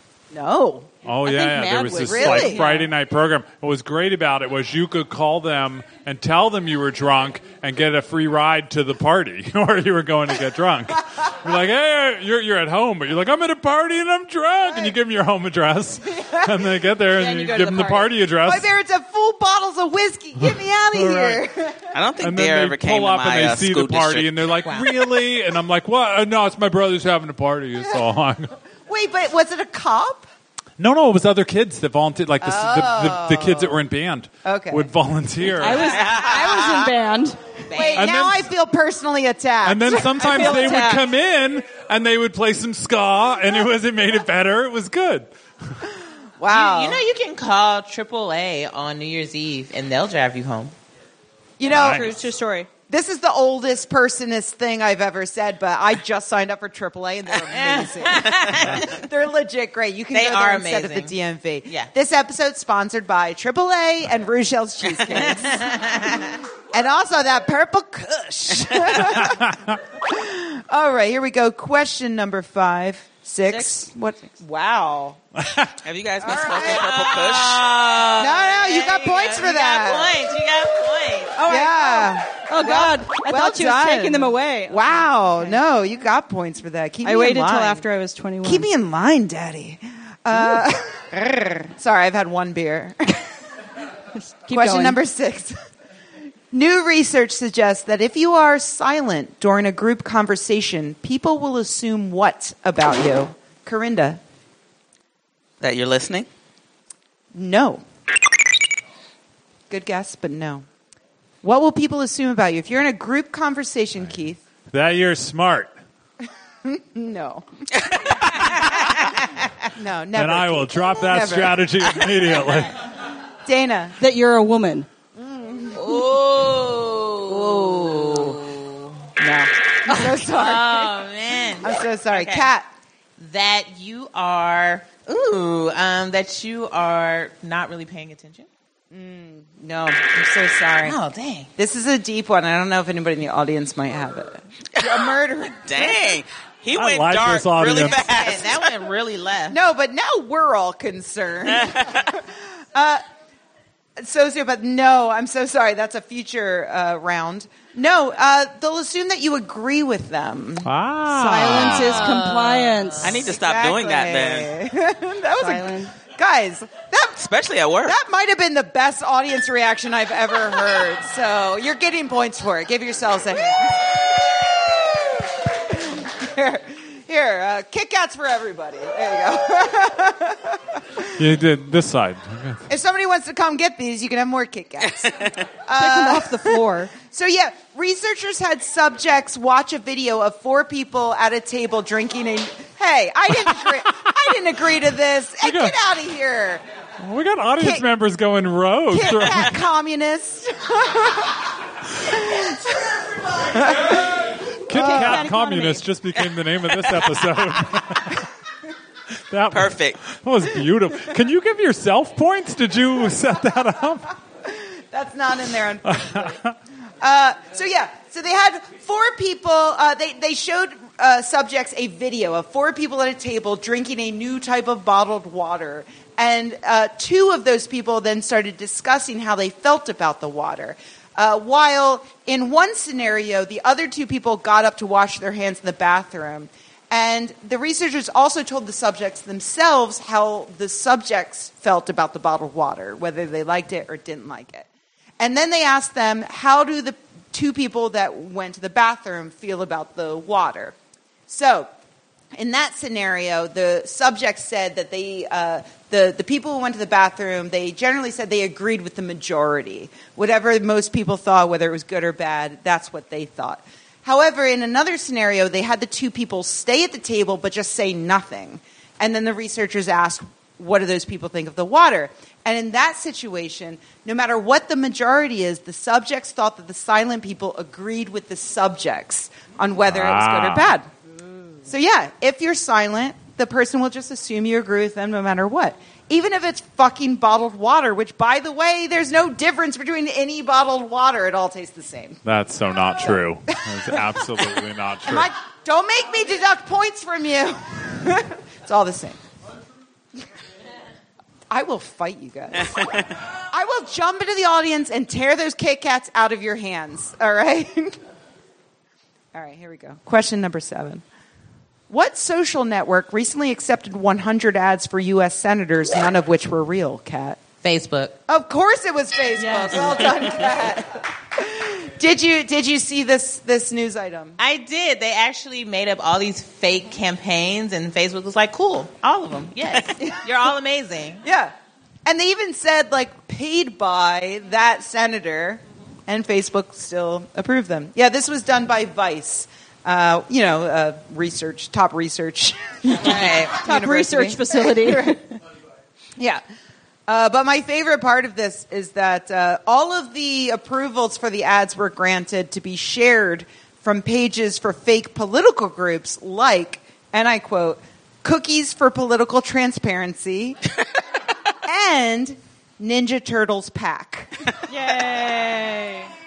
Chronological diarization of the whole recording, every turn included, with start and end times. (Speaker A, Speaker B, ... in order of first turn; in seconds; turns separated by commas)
Speaker A: 0.3-0.9, Speaker B: 1.1-18.7, Speaker C: 1.2-2.9, Speaker A: 2.0-2.7, Speaker A: 16.1-16.6, Speaker C: 17.1-18.1, Speaker A: 18.4-21.9, Speaker B: 20.9-21.4, Speaker D: 21.9-24.5, Speaker B: 22.2-28.6, Speaker E: 24.6-24.9, Speaker A: 28.9-30.3, Speaker B: 30.8-36.0, Speaker A: 32.4-33.8, Speaker A: 34.4-34.9, Speaker C: 35.6-37.4, Speaker D: 36.0-36.8, Speaker E: 37.7-38.1, Speaker A: 37.7-41.0, Speaker B: 38.0-38.5, Speaker B: 39.6-45.3, Speaker C: 40.2-41.0, Speaker A: 46.4-47.0, Speaker E: 46.5-50.7, Speaker A: 51.6-52.2, Speaker C: 51.7-52.7, Speaker B: 51.7-52.1, Speaker A: 52.9-65.8, Speaker E: 57.5-59.0, Speaker E: 60.1-61.2, Speaker E: 65.1-66.4, Speaker A: 66.7-75.2, Speaker B: 69.0-69.7, Speaker C: 73.5-73.8, Speaker B: 75.4-75.7, Speaker D: 75.8-78.2, Speaker A: 76.2-77.2, Speaker E: 76.3-81.5, Speaker A: 78.2-80.2, Speaker A: 81.4-87.8, Speaker C: 81.4-85.6, Speaker C: 87.0-88.7, Speaker A: 88.4-93.2, Speaker C: 90.3-90.7, Speaker C: 94.2-95.0, Speaker A: 94.5-95.6, Speaker A: 96.5-104.2, Speaker D: 105.6-106.3, Speaker A: 107.3-107.8, Speaker A: 109.7-110.7, Speaker A: 111.4-114.4, Speaker B: 114.7-115.7, Speaker A: 116.6-117.5, Speaker A: 118.3-118.6, Speaker A: 119.6-122.0, Speaker B: 120.1-122.8, Speaker A: 123.5-124.0, Speaker C: 124.0-124.9, Speaker A: 125.2-126.0, Speaker E: 125.7-129.0, Speaker A: 127.3-128.4, Speaker A: 129.2-131.0, Speaker E: 129.9-132.5, Speaker A: 131.6-132.7, Speaker E: 133.2-138.5, Speaker A: 138.9-141.0, Speaker E: 140.8-141.5, Speaker A: 141.6-146.1, Speaker D: 145.7-148.7, Speaker B: 146.8-148.1, Speaker E: 147.7-149.6, Speaker A: 149.5-153.0, Speaker A: 154.0-162.2, Speaker B: 160.6-162.0, Speaker C: 161.2-163.1, Speaker E: 161.9-163.0, Speaker A: 163.0-167.2, Speaker D: 163.0-164.5, Speaker C: 165.4-165.9, Speaker D: 167.2-168.0, Speaker A: 167.8-181.1, Speaker B: 181.2-182.7, Speaker A: 182.7-196.6, Speaker C: 185.8-186.9, Speaker B: 195.4-195.8, Speaker B: 197.0-199.6, Speaker A: 197.6-197.9, Speaker A: 198.9-201.4, Speaker A: 202.0-204.2, Speaker B: 204.7-208.2, Speaker A: 204.7-205.3, Speaker C: 204.7-205.9, Speaker B: 209.3-214.1, Speaker D: 209.5-210.0, Speaker A: 214.4-216.4, Speaker B: 215.9-216.5, Speaker A: 217.0-244.7, Speaker A: 245.2-250.8, Speaker A: 251.3-251.7, Speaker A: 252.3-280.9, Speaker B: 279.8-280.7, Speaker A: 281.7-292.2, Speaker B: 292.2-295.3, Speaker A: 293.6-294.0, Speaker A: 295.0-299.2, Speaker A: 301.5-303.0, Speaker A: 303.5-308.0, Speaker A: 309.3-311.0, Speaker A: 311.9-317.4, Speaker E: 317.6-318.2, Speaker A: 318.3-324.4, Speaker C: 319.4-320.2, Speaker E: 324.4-331.2, Speaker A: 331.2-331.5, Speaker A: 332.1-345.1, Speaker E: 343.0-343.6, Speaker C: 343.6-345.3, Speaker A: 347.1-360.6, Speaker A: 361.6-364.5, Speaker C: 364.7-366.1